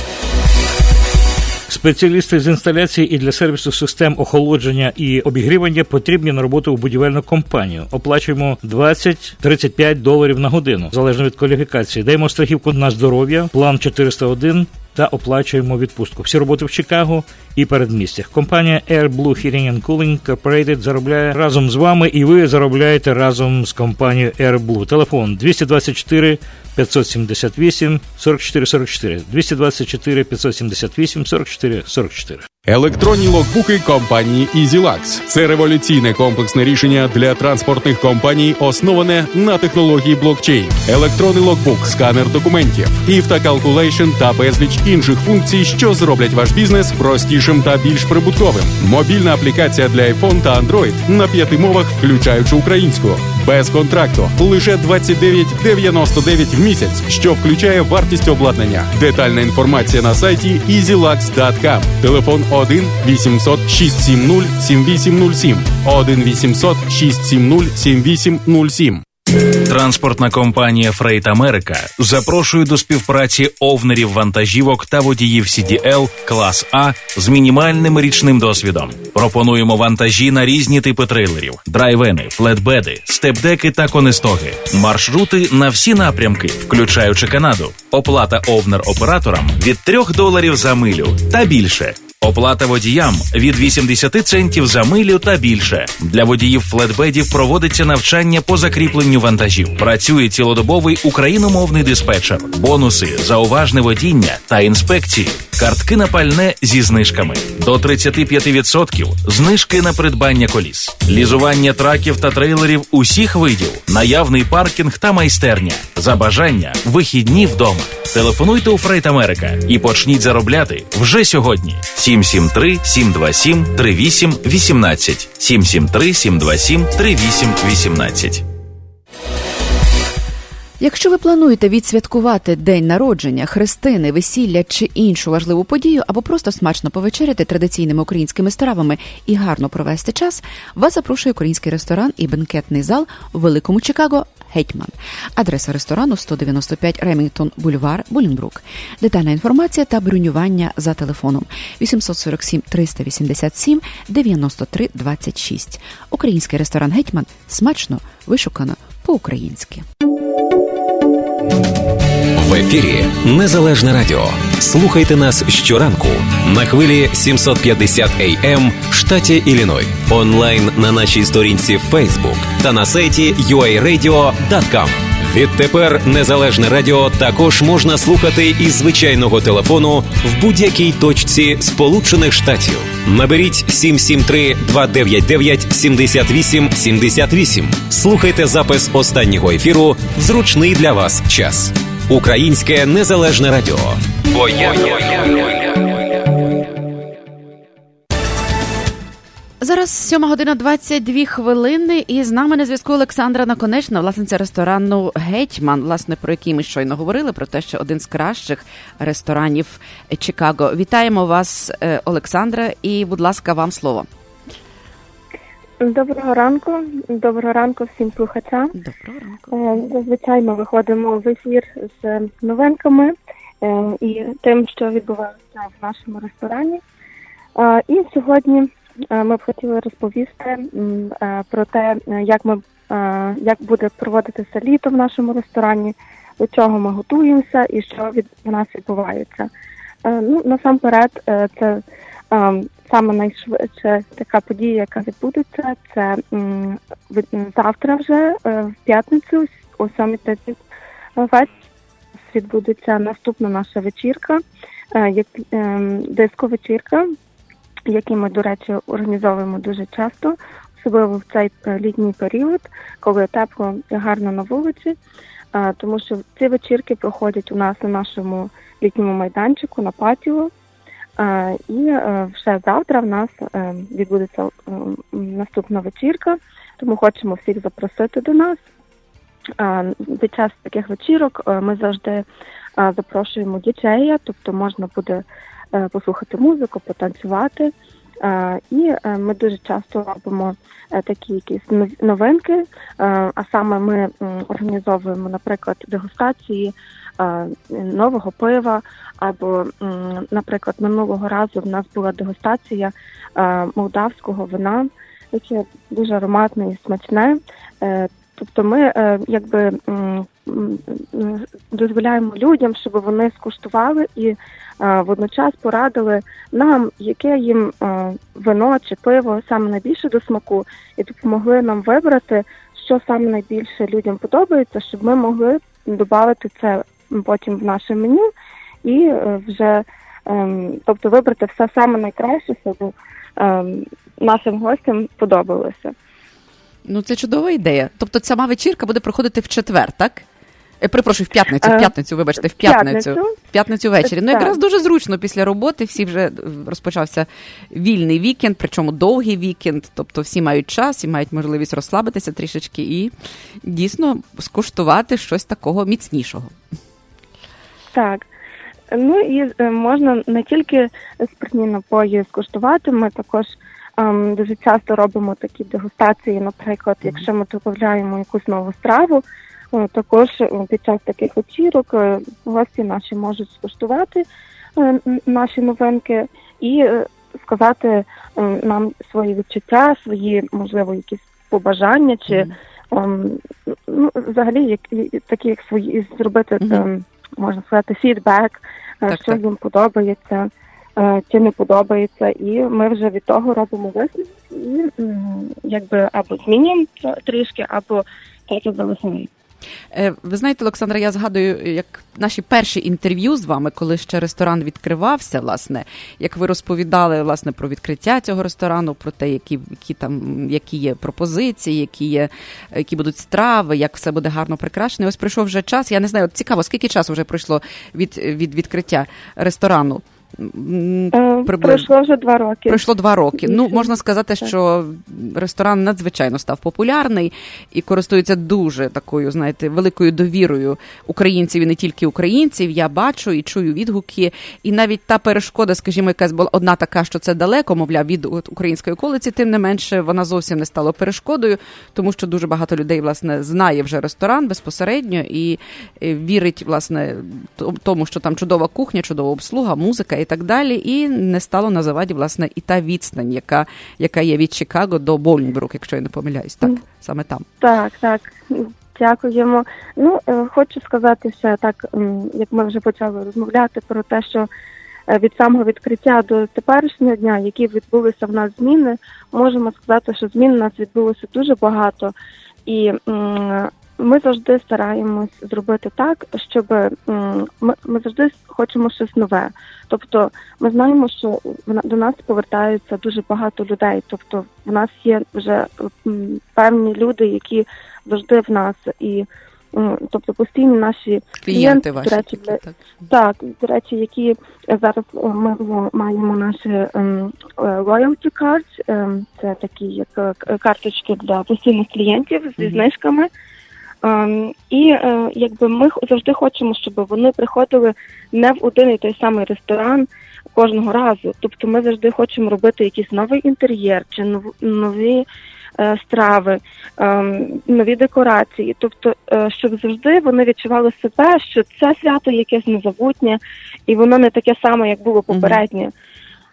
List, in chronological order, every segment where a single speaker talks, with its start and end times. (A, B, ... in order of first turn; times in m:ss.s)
0:01.7-0:32.4 A
0:32.7-1:09.0 B
1:09.6-2:08.4 C
2:10.8-2:39.8 D
2:42.3-3:15.5 E
3:19.6-3:34.1 D
3:35.8-3:38.7 F
3:38.7-3:39.8 D
3:39.5-3:46.8 F
3:47.5-3:59.5 F
4:00.0-4:10.6 F
4:11.2-4:11.6 F
4:12.3-4:17.0 F
4:17.9-4:25.0 F
4:25.5-4:30.5 F
4:31.2-4:38.6 F
4:39.6-4:42.2 F
4:42.8-5:28.3 F
5:28.8-5:35.9 F
5:36.8-5:40.2 D
5:40.8-5:53.1 D
5:41.6-5:41.9 F
5:42.5-5:43.3 F
5:44.0-5:44.6 F
5:53.6-5:56.5 D
5:57.9-5:58.3 F
5:58.9-6:39.3 F
6:22.3-6:22.5 D
6:26.6-6:26.9 D
6:29.1-6:29.4 D
6:39.9-7:01.9 D
7:01.1-7:02.8 F
7:02.7-7:37.5 D
7:03.4-7:04.5 F
7:37.6-7:44.5 F
7:45.1-7:52.1 F
7:52.6-8:23.3 F
8:11.4-8:13.1 D
8:22.6-8:22.9 D
8:24.0-8:35.2 F
8:35.8-8:45.9 F
8:45.3-8:45.6 D